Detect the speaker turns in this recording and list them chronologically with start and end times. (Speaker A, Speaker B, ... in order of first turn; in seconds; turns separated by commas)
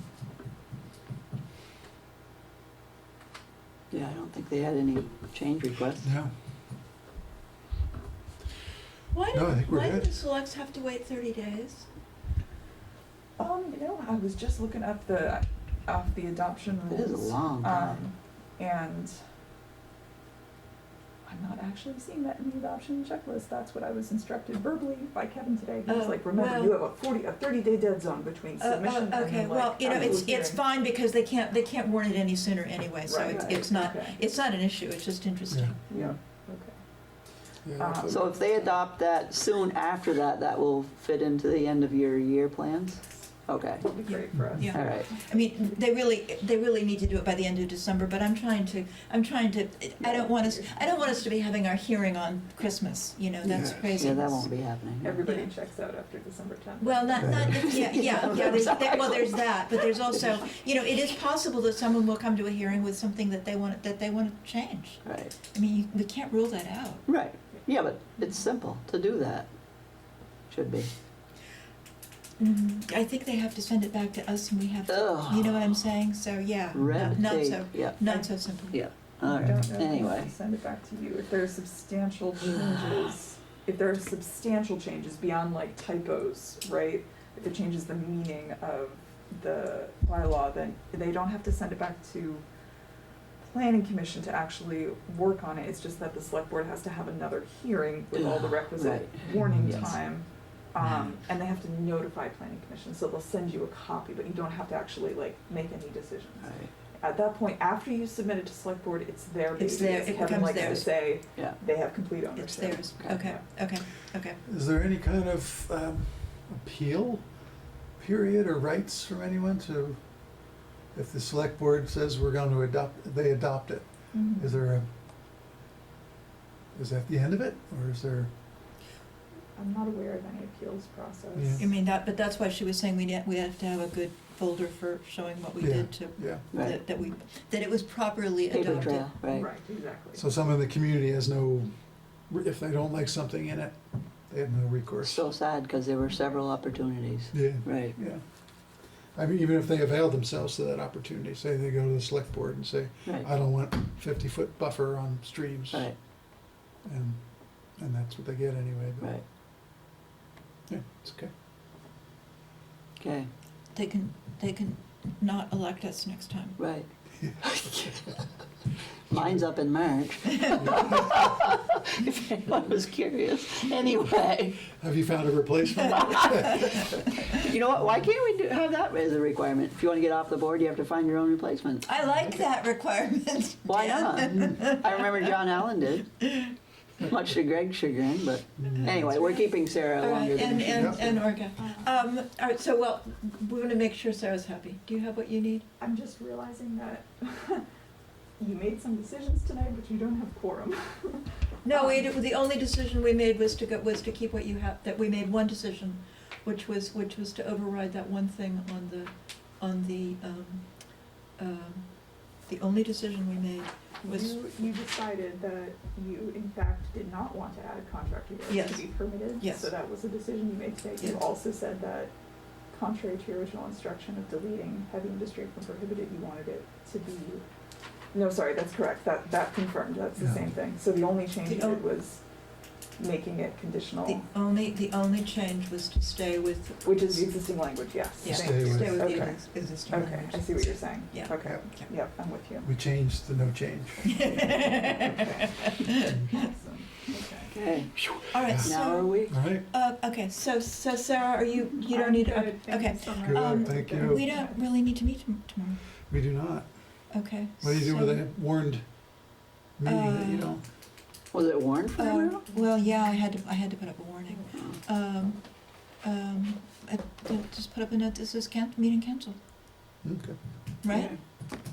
Speaker A: 3.9-6.1, Speaker B: 6.0-6.3, Speaker C: 9.1-11.8, Speaker B: 9.3-10.1, Speaker D: 13.4-19.2, Speaker A: 16.9-18.0, Speaker D: 21.2-30.6, Speaker C: 25.9-26.8, Speaker C: 28.6-35.8, Speaker D: 33.0-34.2, Speaker B: 35.5-36.1, Speaker D: 35.9-36.7, Speaker B: 37.6-38.5, Speaker D: 37.8-38.7, Speaker A: 38.0-43.8, Speaker D: 43.5-45.2, Speaker C: 44.0-54.5, Speaker B: 44.3-44.7, Speaker A: 44.7-45.1, Speaker D: 50.0-51.1, Speaker D: 53.5-53.9, Speaker A: 53.5-55.2, Speaker D: 55.0-58.8, Speaker C: 55.2-55.5, Speaker C: 56.8-67.0, Speaker A: 57.2-60.4, Speaker B: 57.2-57.6, Speaker A: 65.0-65.3, Speaker A: 67.1-69.5, Speaker A: 70.5-70.9, Speaker C: 72.4-78.8, Speaker A: 74.9-75.9, Speaker A: 76.7-78.0, Speaker B: 76.8-77.2, Speaker A: 78.7-80.3, Speaker D: 79.2-92.5, Speaker A: 82.4-83.1, Speaker D: 93.4-113.4, Speaker A: 98.1-100.0, Speaker B: 99.4-99.9, Speaker A: 106.4-106.7, Speaker C: 109.5-111.2, Speaker A: 111.3-111.6, Speaker C: 112.3-114.4, Speaker B: 114.4-117.4, Speaker B: 117.9-120.3, Speaker B: 120.9-124.9, Speaker D: 124.1-124.5, Speaker B: 126.7-128.3, Speaker D: 129.6-131.7, Speaker B: 131.3-131.7, Speaker C: 131.6-139.1, Speaker B: 135.6-136.5, Speaker A: 136.5-136.8, Speaker A: 138.5-139.5, Speaker D: 138.7-140.2, Speaker B: 140.1-145.3, Speaker A: 145.0-148.0, Speaker B: 147.3-156.0, Speaker A: 153.0-153.3, Speaker A: 155.7-156.0, Speaker B: 156.8-159.2, Speaker B: 160.7-161.3, Speaker A: 163.0-163.3, Speaker C: 163.7-166.6, Speaker A: 166.6-166.9, Speaker B: 167.2-167.6, Speaker A: 167.4-168.2, Speaker A: 169.1-174.7, Speaker B: 174.7-176.8, Speaker A: 176.1-176.7, Speaker A: 177.3-181.9, Speaker C: 181.8-185.2, Speaker B: 182.1-182.4, Speaker A: 183.7-186.2, Speaker C: 186.2-186.5, Speaker B: 187.0-187.2, Speaker A: 187.1-191.2, Speaker B: 188.6-189.1, Speaker C: 188.7-195.7, Speaker B: 190.7-191.2, Speaker D: 191.6-191.9, Speaker D: 195.8-197.7, Speaker D: 198.4-202.1, Speaker C: 201.6-214.4, Speaker D: 214.0-222.1, Speaker C: 218.5-219.7, Speaker D: 222.7-227.4, Speaker D: 228.1-232.2, Speaker B: 230.2-230.4, Speaker C: 231.4-231.8, Speaker D: 233.0-234.2, Speaker C: 234.0-241.9, Speaker D: 236.8-242.7, Speaker B: 238.2-239.3, Speaker B: 242.6-244.3, Speaker C: 244.0-246.4, Speaker D: 245.1-247.8, Speaker A: 247.5-248.0, Speaker B: 248.0-248.7, Speaker C: 248.2-255.8, Speaker A: 248.6-249.3, Speaker B: 249.3-249.7, Speaker D: 251.7-254.6, Speaker B: 253.2-254.4, Speaker B: 256.1-259.1, Speaker C: 257.1-258.2, Speaker B: 259.8-260.6, Speaker C: 259.8-260.6, Speaker A: 261.3-262.4, Speaker C: 261.9-269.4, Speaker A: 264.5-264.8, Speaker B: 270.0-270.4, Speaker C: 270.8-271.1, Speaker A: 270.9-271.2